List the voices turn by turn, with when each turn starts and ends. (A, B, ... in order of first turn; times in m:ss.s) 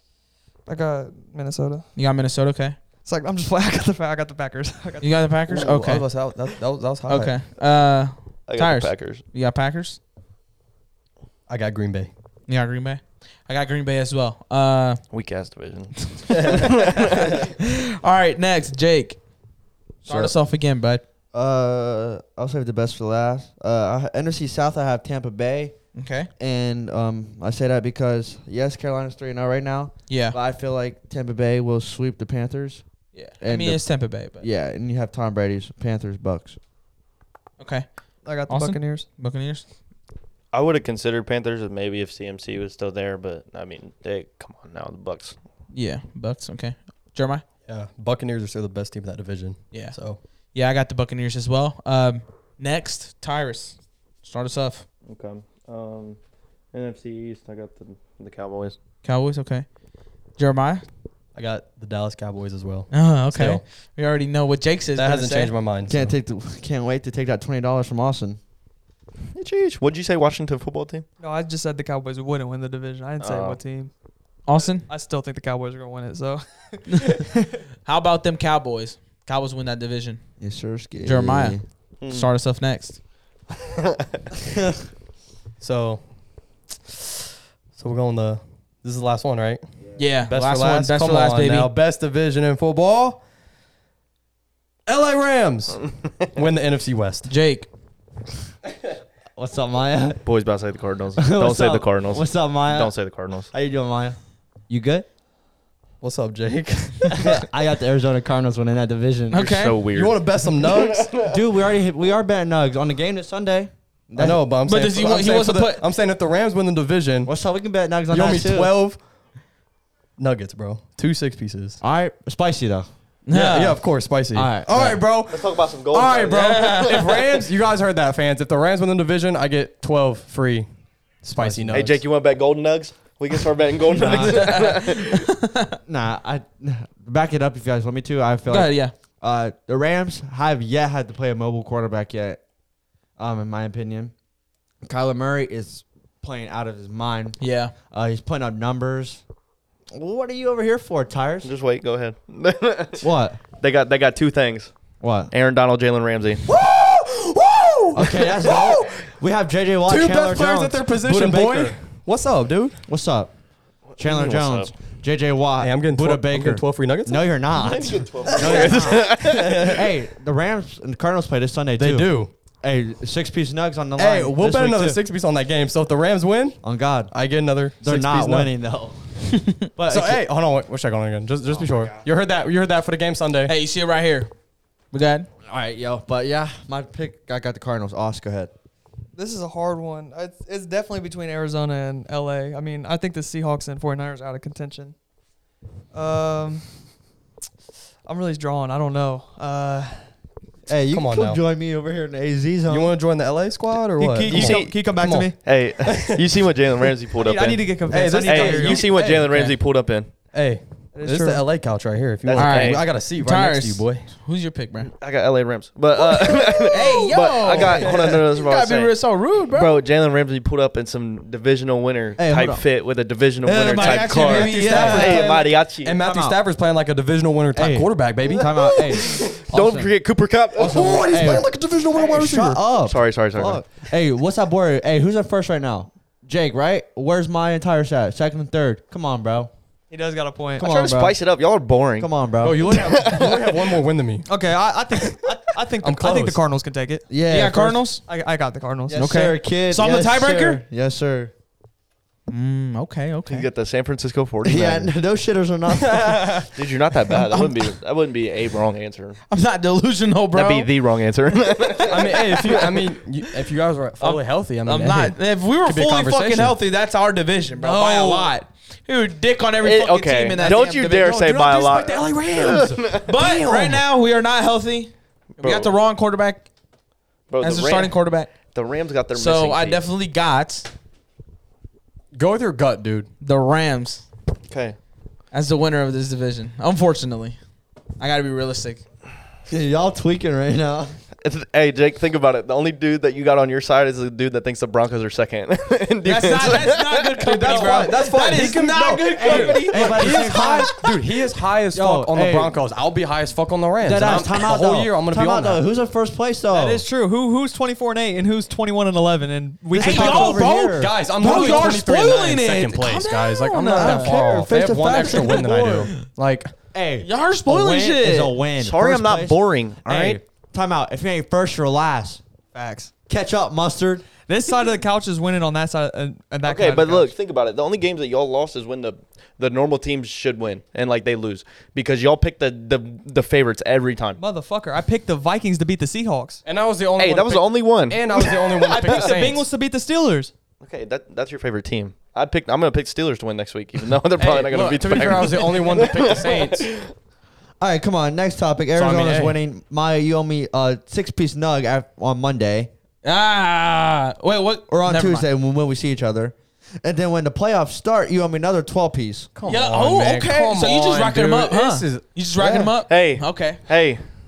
0:00.7-0:01.9 A
0:02.0-0:02.8 B
0:03.0-0:05.2 A
0:05.0-0:06.1 B
0:05.5-0:07.4 C
0:07.1-0:10.0 B
0:08.5-0:09.2 D
0:11.5-0:12.1 C
0:12.5-0:15.0 B
0:15.1-0:17.3 D
0:16.3-0:19.2 B
0:20.0-0:20.4 E
0:20.0-0:21.0 B
0:21.3-0:25.8 E
0:26.0-0:26.3 B
0:26.4-0:32.8 E
0:30.1-0:30.4 B
0:33.1-0:34.4 B
0:33.4-0:36.6 E
0:37.6-0:39.6 B
0:38.2-0:39.1 A
0:40.5-0:45.4 D
0:45.7-0:47.4 B
0:47.7-0:50.2 C
0:49.7-0:50.0 B
0:50.5-0:54.8 B
0:55.1-0:56.2 D
0:56.7-0:58.8 D
0:59.0-0:59.7 B
1:00.4-1:00.8 B
1:01.3-1:03.6 C
1:02.9-1:05.5 B
1:05.0-1:06.1 C
1:05.9-1:08.4 E
1:09.4-1:11.1 D
1:11.2-1:13.9 A
1:13.2-1:13.6 D
1:14.5-1:14.9 B
1:14.7-1:17.3 A
1:17.8-1:20.2 B
1:20.4-1:21.6 E
1:21.0-1:23.0 B
1:22.0-1:22.3 D
1:25.6-1:26.1 C
1:27.7-1:33.2 C
1:30.0-1:31.7 B
1:34.9-1:37.3 C
1:37.3-1:37.7 B
1:39.4-1:40.2 E
1:40.2-1:43.5 D
1:41.2-1:43.0 E
1:43.5-1:44.2 E
1:44.7-1:45.1 E
1:46.0-1:47.4 C
1:47.1-1:49.7 E
1:49.3-1:49.8 B
1:49.4-1:51.4 D
1:50.0-1:51.2 C
1:51.1-1:54.4 E
1:54.2-1:57.4 C
1:54.6-1:55.8 B
1:57.2-1:58.7 E
1:58.1-1:59.0 C
2:00.2-2:01.8 C
2:01.8-2:02.9 E
2:03.3-2:03.8 B
2:03.3-2:10.7 C
2:04.3-2:05.0 E
2:05.3-2:07.4 D
2:11.2-2:12.0 C
2:11.4-2:11.7 B
2:11.7-2:15.2 D
2:14.0-2:14.5 E
2:14.2-2:15.8 B
2:15.9-2:22.4 E
2:18.5-2:18.9 B
2:23.2-2:24.1 E
2:24.8-2:27.4 E
2:27.4-2:27.7 B
2:27.9-2:29.2 E
2:29.9-2:31.5 E
2:31.4-2:33.1 D
2:33.0-2:33.4 E
2:33.6-2:34.7 D
2:35.0-2:35.3 E
2:35.3-2:36.5 D
2:36.6-2:37.9 C
2:36.6-2:37.5 A
2:37.9-2:41.8 E
2:39.9-2:42.8 C
2:42.9-2:43.3 E
2:43.9-2:44.7 D
2:44.0-2:55.0 E
2:45.6-2:47.2 C
2:47.6-2:49.8 D
2:48.3-2:49.8 C
2:51.8-2:52.3 C
2:54.0-2:58.5 C
2:56.6-2:57.1 E
2:57.8-3:00.2 E
2:59.9-3:03.5 C
3:01.5-3:02.0 E
3:03.5-3:04.3 B
3:04.9-3:05.3 B
3:05.5-3:08.5 E
3:09.1-3:15.0 A
3:15.9-3:16.8 A
3:18.0-3:20.1 A
3:20.7-3:22.9 E
3:20.9-3:21.4 C
3:22.7-3:26.2 C
3:24.0-3:25.4 A
3:24.2-3:30.1 D
3:27.2-3:28.9 A
3:27.9-3:29.5 C
3:30.3-3:34.1 C
3:31.0-3:31.5 A
3:32.2-3:32.8 D
3:32.4-3:34.9 B
3:34.9-3:39.0 D
3:36.6-3:39.8 B
3:37.8-3:38.2 C
3:39.5-3:46.0 D
3:42.2-3:42.6 E
3:43.5-3:46.4 E
3:43.5-3:45.3 B
3:44.5-3:45.1 A
3:44.8-3:45.3 C
3:45.8-3:49.2 C
3:47.6-3:49.9 E
3:48.4-3:51.3 D
3:50.6-3:52.6 C
3:50.6-3:59.5 E
3:52.8-3:53.6 D
3:59.9-4:00.7 A
4:00.6-4:01.2 E
4:00.6-4:03.8 D
4:02.0-4:02.9 E
4:02.4-4:04.3 C
4:04.3-4:07.1 A
4:05.8-4:06.4 C
4:07.1-4:07.9 E
4:07.3-4:08.0 B
4:08.0-4:09.1 A
4:08.9-4:11.3 E
4:08.9-4:10.6 B
4:12.3-4:13.5 B
4:13.3-4:14.9 D
4:14.4-4:16.5 E
4:15.8-4:16.5 C
4:16.6-4:19.2 D
4:19.3-4:20.7 B
4:20.3-4:22.7 D
4:21.9-4:26.6 C
4:24.0-4:31.2 B
4:27.5-4:28.4 A
4:29.6-4:33.1 D
4:30.4-4:32.3 A
4:31.2-4:32.8 C
4:33.0-4:36.5 B
4:33.2-4:33.7 A
4:35.4-4:35.7 D
4:37.3-4:39.8 D
4:37.4-4:38.3 B
4:39.1-4:40.7 B
4:42.1-4:43.1 C
4:43.2-4:44.0 B
4:44.5-4:44.8 D
4:45.3-4:47.4 B
4:48.0-4:48.8 B
4:49.5-4:50.9 E
4:51.2-4:57.7 D
4:56.0-5:00.3 B
4:57.2-5:05.6 C
4:59.1-5:00.8 E
5:01.7-5:02.6 E
5:03.8-5:06.8 E
5:06.5-5:10.4 A
5:09.7-5:11.8 E
5:09.8-5:14.2 B
5:09.8-5:16.5 C
5:13.7-5:15.9 E
5:14.8-5:16.0 B
5:16.7-5:22.2 E
5:17.0-5:18.4 B
5:18.6-5:20.2 D
5:22.5-5:22.9 A
5:23.1-5:24.1 E
5:24.3-5:27.1 A
5:26.4-5:34.2 D
5:34.2-5:36.4 A
5:36.4-5:39.5 C
5:37.0-5:39.0 D
5:38.2-5:40.3 A
5:40.6-5:46.9 D
5:44.2-5:46.7 C
5:47.6-5:52.7 E
5:48.8-5:49.4 C
5:53.0-5:55.3 B
5:54.7-5:59.3 E
5:59.4-6:02.0 C
5:59.4-6:03.6 B
6:02.4-6:02.7 E
6:02.9-6:04.0 D